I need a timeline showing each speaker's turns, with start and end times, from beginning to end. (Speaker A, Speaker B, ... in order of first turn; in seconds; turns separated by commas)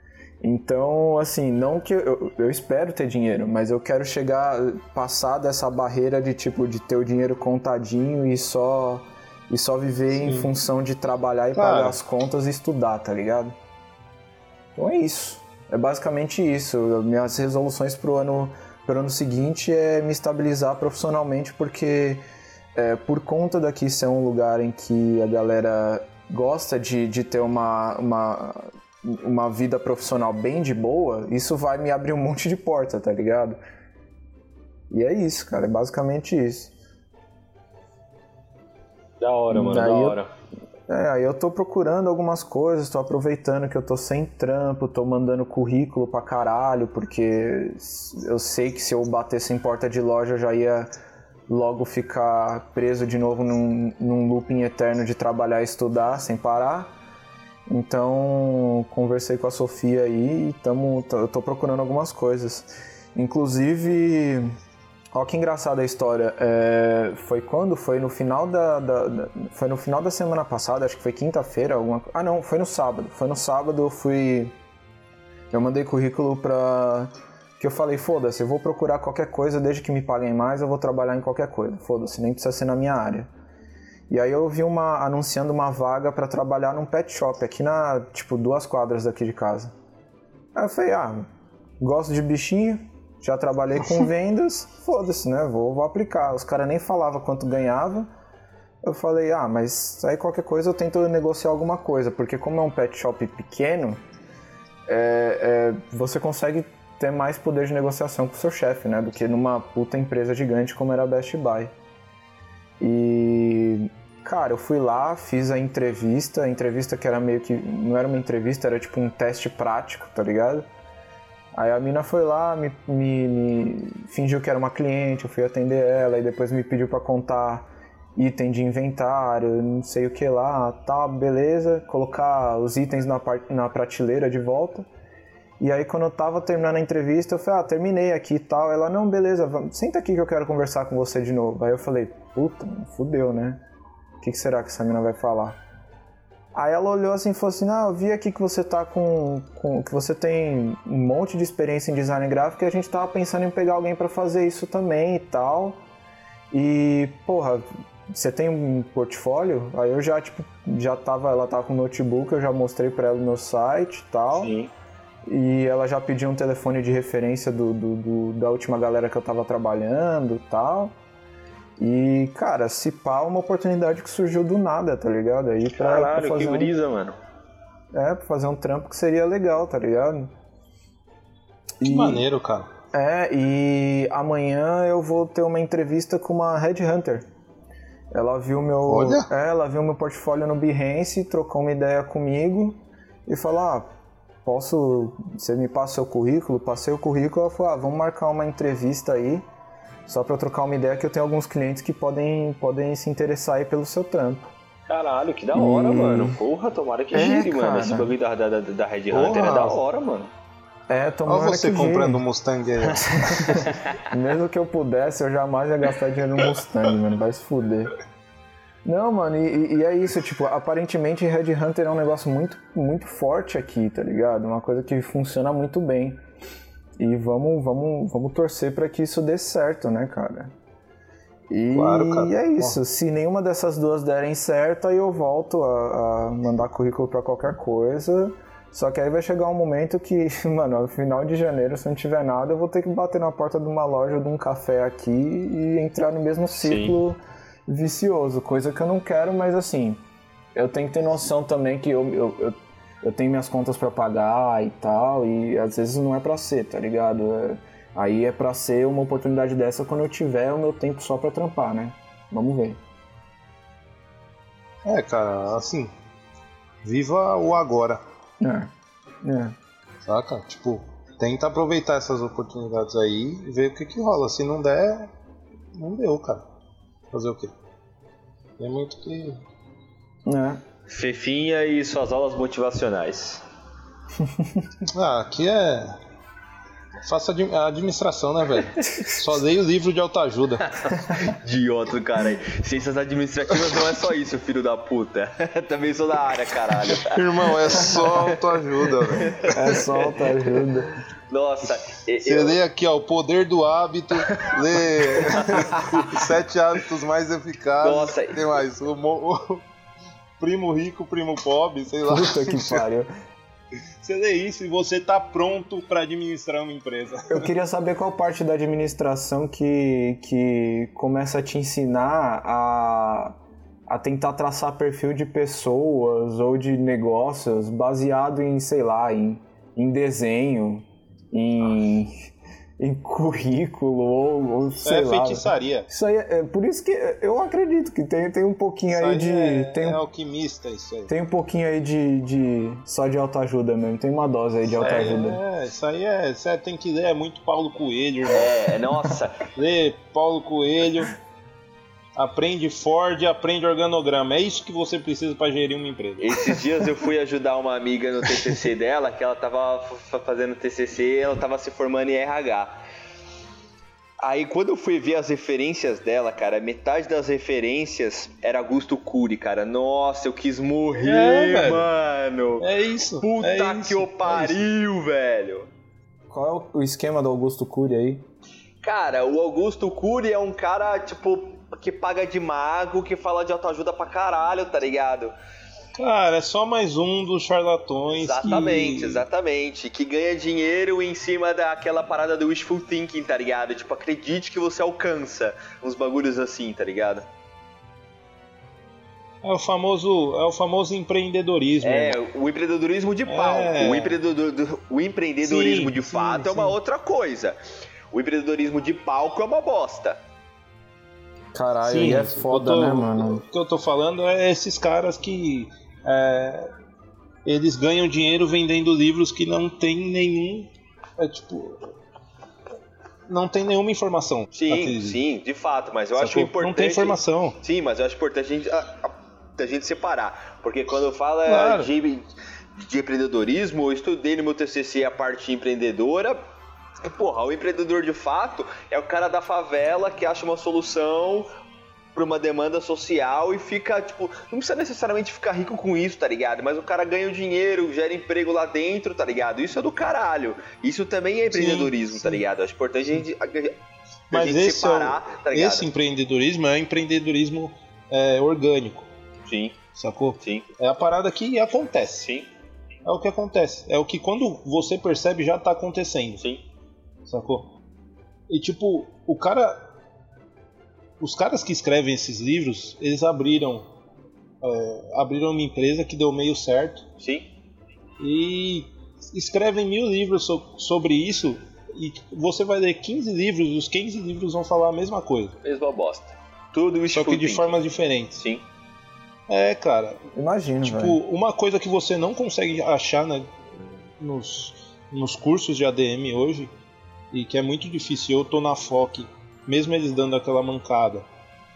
Speaker A: 0.4-13.5, Speaker B: 10.2-10.5, Speaker B: 11.5-12.0, Speaker A: 14.8-22.2, Speaker A: 22.7-33.6, Speaker A: 34.9-36.7, Speaker C: 39.2-40.3, Speaker A: 39.5-40.2, Speaker A: 40.9-50.9, Speaker A: 51.5-56.9, Speaker A: 57.7-64.5, Speaker A: 65.1-74.5, Speaker A: 75.5-83.3, Speaker A: 84.1-89.7, Speaker A: 90.5-91.3, Speaker A: 91.8-98.1, Speaker A: 98.8-104.0, Speaker A: 104.9-111.7, Speaker A: 112.8-120.7, Speaker A: 121.5-134.9, Speaker A: 135.6-143.6, Speaker A: 144.2-145.6, Speaker A: 146.5-155.8, Speaker A: 156.5-164.5, Speaker C: 164.3-164.7, Speaker A: 165.2-170.9, Speaker A: 171.8-176.7, Speaker C: 175.8-177.2, Speaker A: 177.9-180.3, Speaker A: 181.8-182.2, Speaker B: 181.8-182.7, Speaker A: 182.9-187.3, Speaker A: 188.1-193.9, Speaker B: 188.8-189.3, Speaker A: 194.4-199.4, Speaker A: 200.1-204.5, Speaker C: 204.9-210.3, Speaker A: 205.5-206.4, Speaker A: 207.1-208.1, Speaker B: 209.1-209.8, Speaker A: 210.9-212.2, Speaker B: 211.3-213.7, Speaker A: 213.1-217.9, Speaker C: 213.5-214.0, Speaker A: 218.8-226.2, Speaker A: 227.0-230.5, Speaker A: 231.5-250.0, Speaker B: 231.7-232.8, Speaker C: 246.6-247.0, Speaker A: 250.5-262.8, Speaker B: 264.8-265.9, Speaker B: 266.8-268.0, Speaker A: 268.4-268.7, Speaker A: 269.2-269.5, Speaker B: 270.1-275.1, Speaker B: 275.8-276.4, Speaker B: 277.1-277.5, Speaker B: 278.6-279.4, Speaker A: 280.2-280.6, Speaker C: 280.9-283.4, Speaker A: 284.2-284.7, Speaker B: 284.9-285.9, Speaker B: 287.0-290.8, Speaker A: 288.8-289.3, Speaker C: 290.8-298.4, Speaker A: 290.9-291.3, Speaker B: 296.9-299.4, Speaker C: 299.1-300.5, Speaker A: 299.4-300.9, Speaker C: 301.3-302.6, Speaker B: 302.2-309.6, Speaker C: 305.3-305.8, Speaker A: 305.5-306.0, Speaker C: 307.8-308.4, Speaker B: 310.4-312.8, Speaker A: 312.0-313.1, Speaker B: 314.0-317.5, Speaker A: 317.3-323.4, Speaker A: 323.9-332.1, Speaker A: 332.8-340.0, Speaker B: 334.8-335.9, Speaker B: 338.9-341.1, Speaker A: 341.1-345.4, Speaker B: 344.8-348.7, Speaker C: 348.3-349.5, Speaker B: 349.5-351.1, Speaker B: 352.1-356.6, Speaker C: 356.2-362.8, Speaker C: 364.2-372.6, Speaker B: 370.9-371.9, Speaker B: 372.6-374.6, Speaker C: 373.2-375.7, Speaker A: 376.3-378.2, Speaker C: 378.8-385.3, Speaker B: 385.9-389.2, Speaker C: 388.2-397.2, Speaker B: 399.4-402.2, Speaker C: 401.8-407.6, Speaker B: 403.3-404.2, Speaker B: 405.4-406.8, Speaker C: 408.1-410.2, Speaker A: 411.5-413.4, Speaker B: 411.8-416.7, Speaker B: 417.4-421.9, Speaker B: 423.3-425.2, Speaker C: 424.5-436.4, Speaker B: 426.1-427.6, Speaker B: 431.5-431.9, Speaker C: 437.0-441.5, Speaker C: 442.1-453.8, Speaker B: 451.5-452.4, Speaker B: 454.3-459.1, Speaker C: 454.3-455.9, Speaker C: 459.4-459.8, Speaker B: 459.9-462.3, Speaker C: 460.4-460.6, Speaker C: 462.2-462.5, Speaker B: 463.0-466.4, Speaker B: 467.3-467.7, Speaker B: 468.5-469.8, Speaker B: 471.2-473.9, Speaker B: 474.6-477.0, Speaker C: 477.2-477.5, Speaker B: 478.2-485.6, Speaker C: 485.6-487.7, Speaker B: 487.1-488.4, Speaker C: 488.4-488.6, Speaker B: 489.5-490.2, Speaker A: 490.3-491.2, Speaker B: 490.8-496.7, Speaker B: 497.3-501.2